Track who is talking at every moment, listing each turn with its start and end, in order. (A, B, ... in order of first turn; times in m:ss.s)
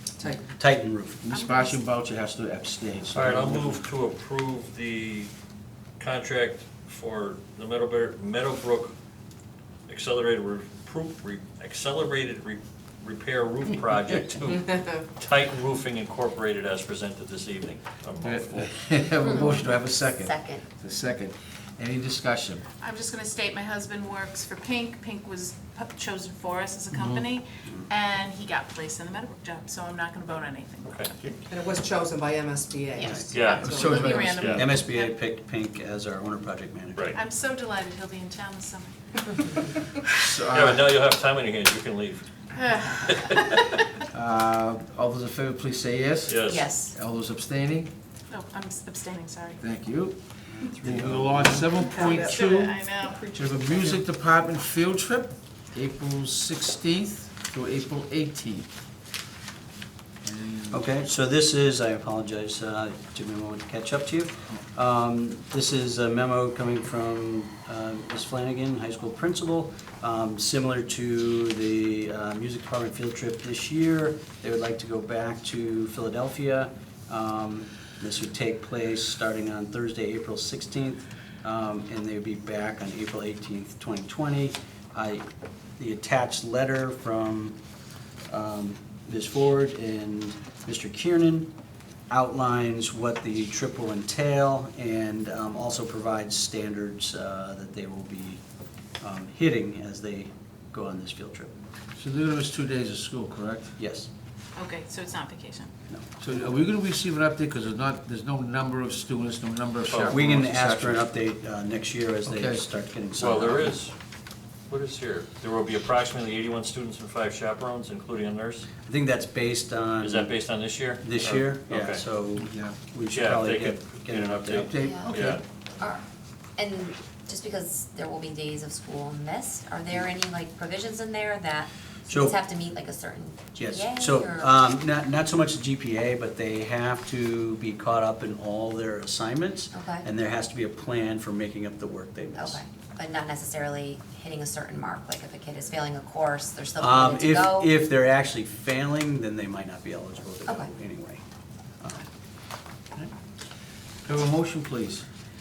0:00.2-0:00.4 A
0:00.4-0:01.2 B
0:01.2-0:03.8 C
0:01.3-0:01.6 D
0:03.1-0:05.3 E
0:03.2-0:03.6 B
0:06.0-0:08.9 E
0:09.9-0:18.7 E
0:18.2-0:22.6 C
0:19.2-0:19.6 F
0:20.2-0:20.6 F
0:22.8-0:30.8 D
0:26.9-0:27.2 C
0:30.9-0:31.1 E
0:31.4-0:34.6 A
0:33.0-0:33.2 F
0:33.0-0:37.2 B
0:33.3-0:34.8 E
0:33.4-0:35.1 D
0:37.1-0:39.7 D
0:40.1-0:40.9 C
0:40.5-0:43.8 E
0:44.1-0:47.9 C
0:46.3-0:46.7 E
0:46.5-0:46.9 F
0:48.3-0:49.6 D
0:49.6-0:50.2 C
0:50.6-0:51.8 B
0:50.8-0:58.7 C
0:52.0-0:53.2 D
0:52.0-0:52.4 A
0:53.2-0:54.0 A
1:00.2-1:00.9 C
1:00.7-1:25.2 B
1:25.8-1:27.6 B
1:28.3-1:31.5 B
1:32.1-1:38.4 B
1:39.0-1:41.5 B
1:42.0-1:43.8 C
1:43.8-1:44.1 B
1:44.5-1:45.7 D
1:46.2-1:51.0 C
1:49.9-1:50.2 E
1:50.0-1:53.8 B
1:52.2-1:52.6 C
1:53.2-1:53.9 E
1:54.7-1:58.6 E
1:58.8-2:00.4 B
2:00.0-2:02.0 E
2:01.0-2:04.8 B
2:02.4-2:02.8 C
2:03.1-2:05.4 E
2:04.6-2:05.4 C
2:04.8-2:05.2 F
2:06.6-2:14.6 F
2:12.1-2:12.4 B
2:13.6-2:22.6 B
2:19.7-2:20.0 F
2:22.4-2:27.7 F
2:26.8-2:31.2 B
2:31.8-2:32.0 B
2:34.0-2:35.0 C